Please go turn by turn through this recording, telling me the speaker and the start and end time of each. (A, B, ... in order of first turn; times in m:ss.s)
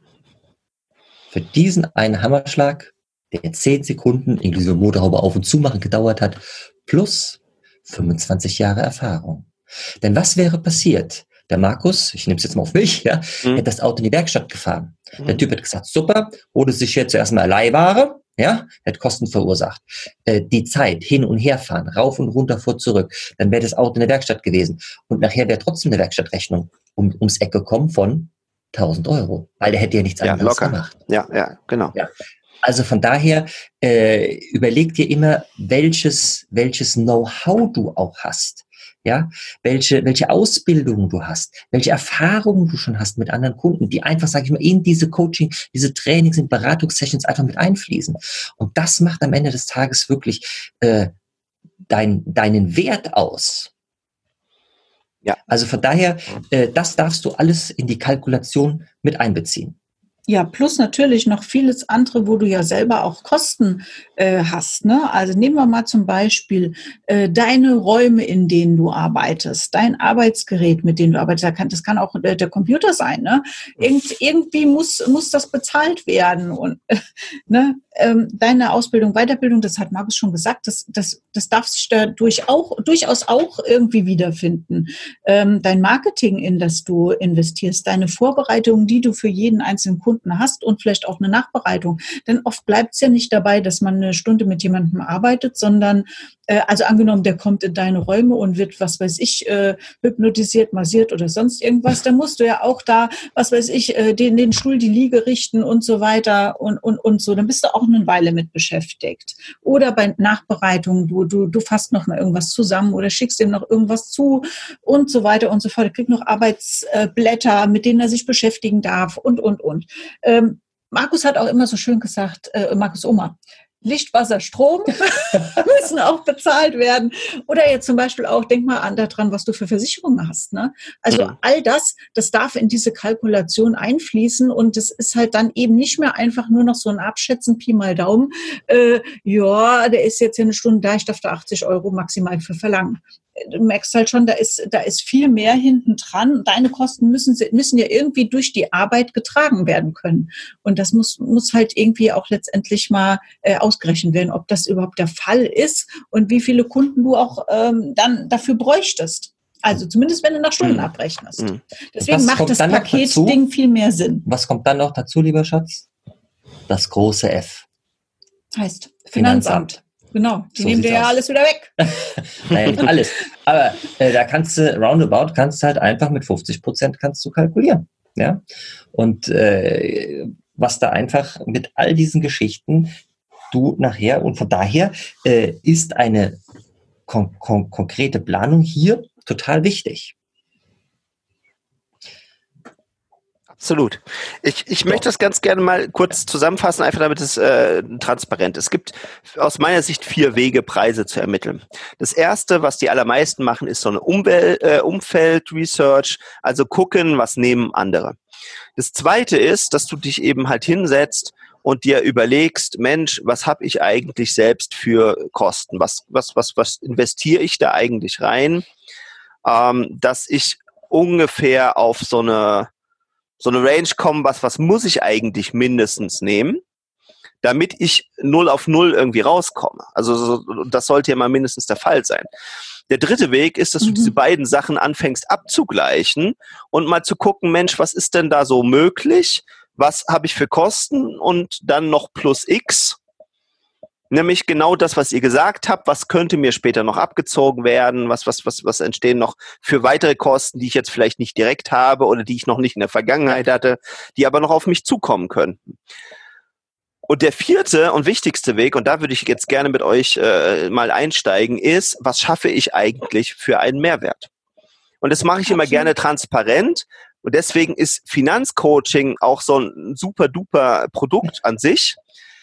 0:01.3-0:09.5 A
0:10.0-0:31.0 A
0:30.2-0:32.0 B
0:32.6-0:51.1 A
0:51.9-0:53.7 A
0:55.5-0:59.8 A
1:00.3-2:44.3 C
2:40.6-2:40.9 B
2:42.0-2:43.4 A
2:44.3-2:45.9 A
2:46.7-2:47.6 A
2:48.6-2:52.1 C
2:49.1-2:49.8 A
2:50.6-2:51.2 A
2:52.2-2:58.4 A
2:58.9-3:03.0 A
3:03.5-3:06.4 A
3:07.1-3:10.1 A
3:13.5-3:28.2 B
3:28.8-3:38.7 B
3:39.4-3:42.7 B
3:43.4-3:46.6 B
3:47.4-3:52.3 B
3:52.9-4:03.0 B
3:53.8-3:54.1 C
4:04.1-4:15.8 B
4:17.1-4:24.3 B
4:25.0-4:32.0 B
4:25.5-4:25.9 C